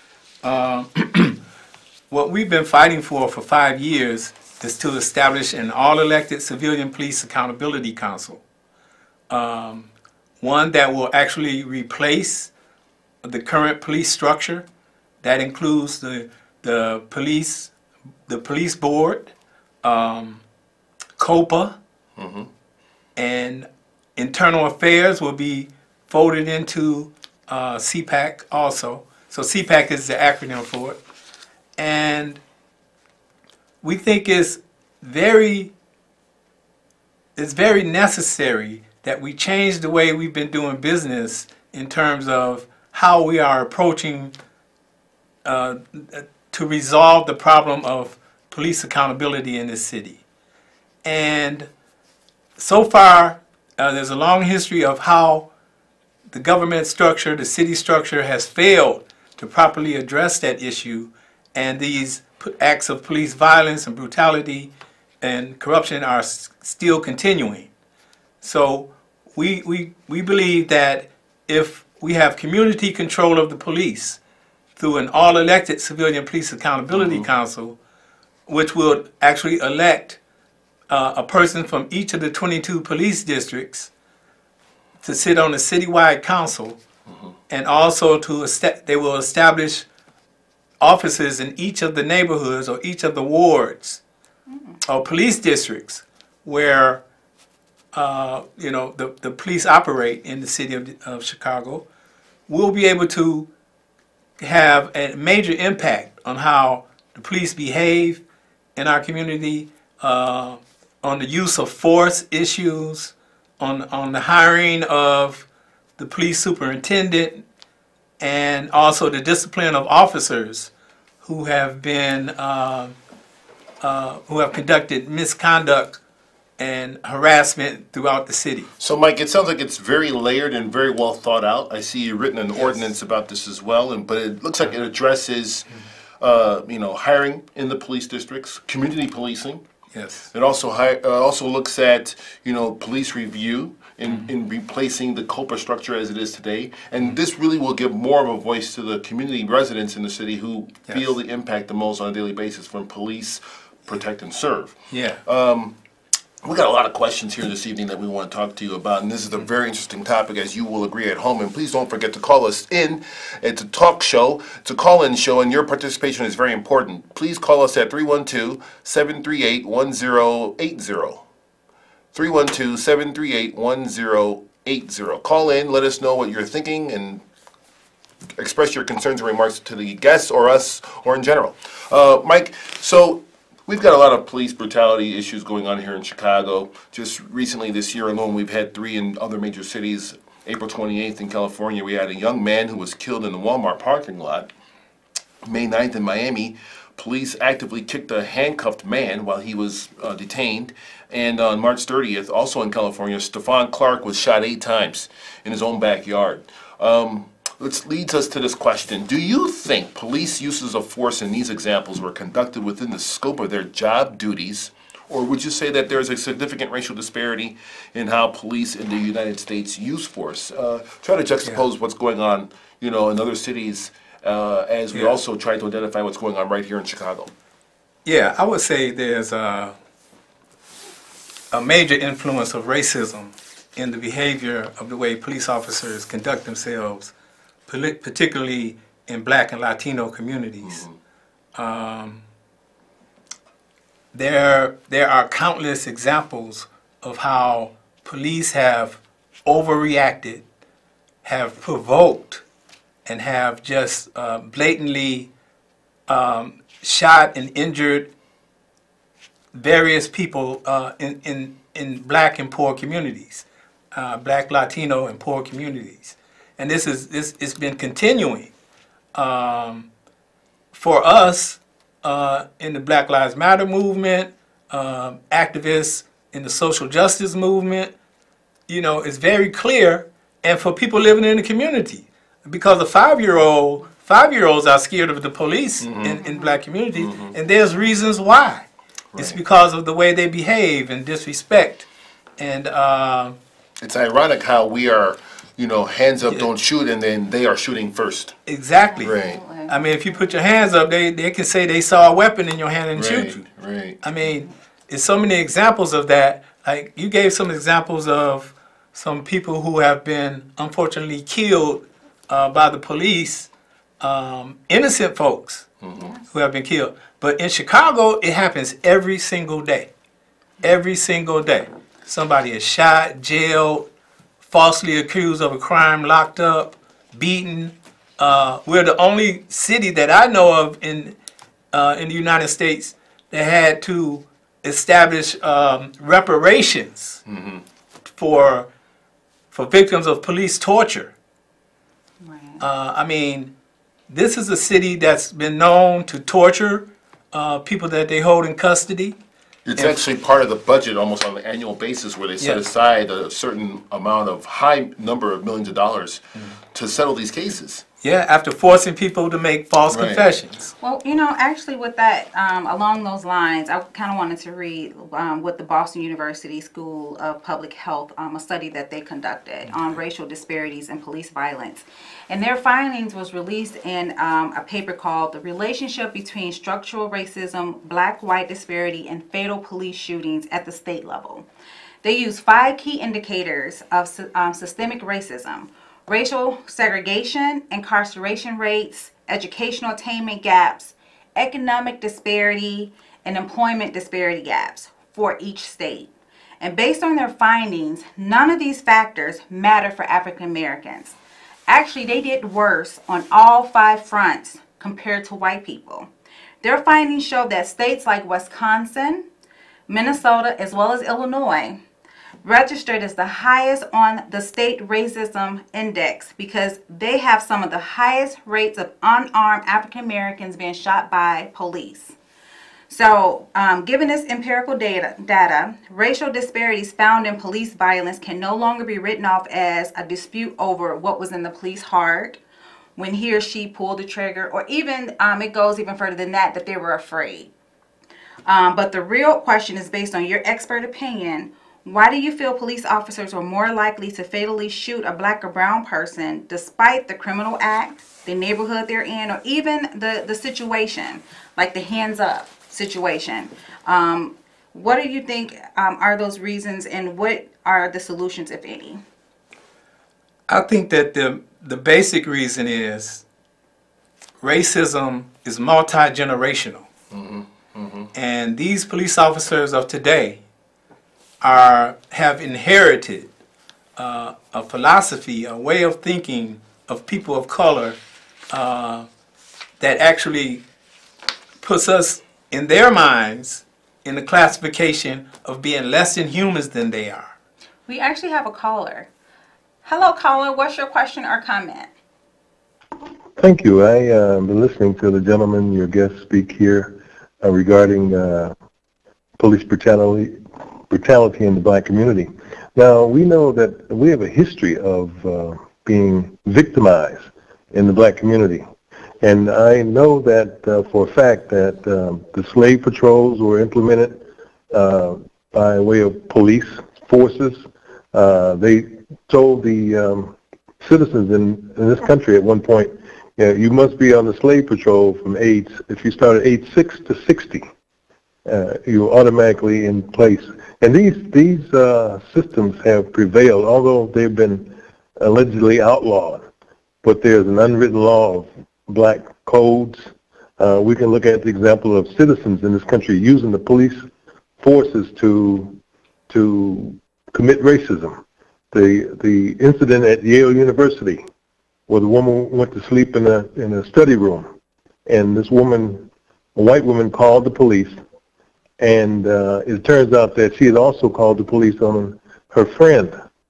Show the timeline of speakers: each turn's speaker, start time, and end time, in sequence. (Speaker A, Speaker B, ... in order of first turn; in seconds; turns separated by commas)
Speaker A: 0.4-1.4, Speaker A: 2.1-8.4, Speaker A: 9.3-9.9, Speaker A: 10.4-12.5, Speaker A: 13.2-14.7, Speaker A: 15.2-17.7, Speaker A: 18.3-19.3, Speaker A: 19.8-20.4, Speaker A: 21.2-21.8, Speaker B: 22.2-22.5, Speaker A: 23.1-31.0, Speaker A: 31.8-32.4, Speaker A: 33.8-35.7, Speaker A: 37.4-44.3, Speaker A: 45.4-50.2, Speaker A: 51.0-51.7, Speaker A: 52.6-55.5, Speaker A: 56.3-67.7, Speaker A: 68.4-74.2, Speaker A: 74.8-77.8, Speaker B: 76.9-77.2, Speaker A: 78.5-80.2, Speaker A: 80.9-83.9, Speaker A: 85.0-86.8, Speaker A: 87.5-89.9, Speaker A: 90.8-94.0, Speaker A: 94.8-97.0, Speaker A: 97.9-101.8, Speaker A: 102.5-103.5, Speaker A: 104.4-108.2, Speaker A: 108.8-115.5, Speaker A: 116.0-117.4, Speaker A: 118.2-120.7, Speaker A: 121.2-122.9, Speaker A: 123.8-126.0, Speaker A: 126.6-128.7, Speaker B: 128.8-135.7, Speaker B: 136.2-139.6, Speaker A: 139.9-140.3, Speaker B: 140.3-155.7, Speaker A: 154.9-155.2, Speaker B: 156.4-171.2, Speaker B: 172.1-177.2, Speaker B: 178.4-194.5, Speaker B: 195.4-227.3, Speaker A: 228.0-229.7, Speaker A: 231.5-237.1, Speaker A: 237.7-240.8, Speaker B: 240.6-240.9, Speaker A: 241.5-242.2, Speaker A: 244.1-250.4, Speaker A: 251.2-252.4, Speaker A: 253.0-255.3, Speaker A: 256.1-258.1, Speaker A: 259.5-268.5, Speaker A: 269.1-269.9, Speaker A: 270.7-277.9, Speaker A: 278.7-291.9, Speaker B: 285.8-286.2, Speaker C: 286.2-286.6, Speaker B: 286.9-287.3, Speaker A: 292.4-293.4, Speaker B: 293.8-298.4, Speaker A: 298.4-303.4, Speaker C: 298.9-300.1, Speaker B: 299.0-299.4, Speaker B: 302.9-304.0, Speaker A: 304.0-313.5, Speaker A: 314.0-315.7, Speaker B: 315.8-316.1, Speaker A: 316.3-319.9, Speaker A: 320.6-323.9, Speaker A: 324.4-331.1, Speaker A: 331.7-337.2, Speaker B: 337.3-337.6, Speaker A: 338.1-338.7, Speaker A: 339.5-341.1, Speaker C: 342.2-342.6, Speaker A: 342.6-343.5, Speaker A: 344.1-349.2, Speaker B: 349.6-357.8, Speaker A: 358.0-360.7, Speaker B: 359.9-360.2, Speaker C: 360.8-381.5, Speaker C: 382.0-396.1, Speaker C: 396.6-401.1, Speaker C: 401.7-406.1, Speaker C: 406.6-409.2, Speaker C: 409.9-411.8, Speaker C: 412.4-422.1, Speaker C: 422.9-432.4, Speaker C: 433.0-437.5, Speaker C: 438.4-459.0, Speaker A: 460.5-463.2, Speaker A: 464.4-466.8, Speaker B: 467.1-468.1, Speaker A: 468.1-470.4, Speaker A: 471.4-473.3, Speaker A: 474.0-478.0, Speaker A: 478.5-479.1, Speaker A: 479.8-480.6, Speaker A: 481.6-487.3, Speaker C: 487.9-489.1, Speaker C: 489.8-491.9, Speaker D: 493.4-498.5, Speaker D: 499.4-500.4, Speaker D: 500.9-508.6, Speaker D: 509.2-517.6, Speaker D: 518.1-527.6, Speaker D: 528.5-536.4, Speaker D: 537.0-544.0, Speaker D: 544.6-545.8, Speaker D: 546.3-548.2, Speaker D: 548.7-551.2, Speaker D: 551.9-554.5, Speaker D: 555.0-558.0, Speaker D: 558.8-563.1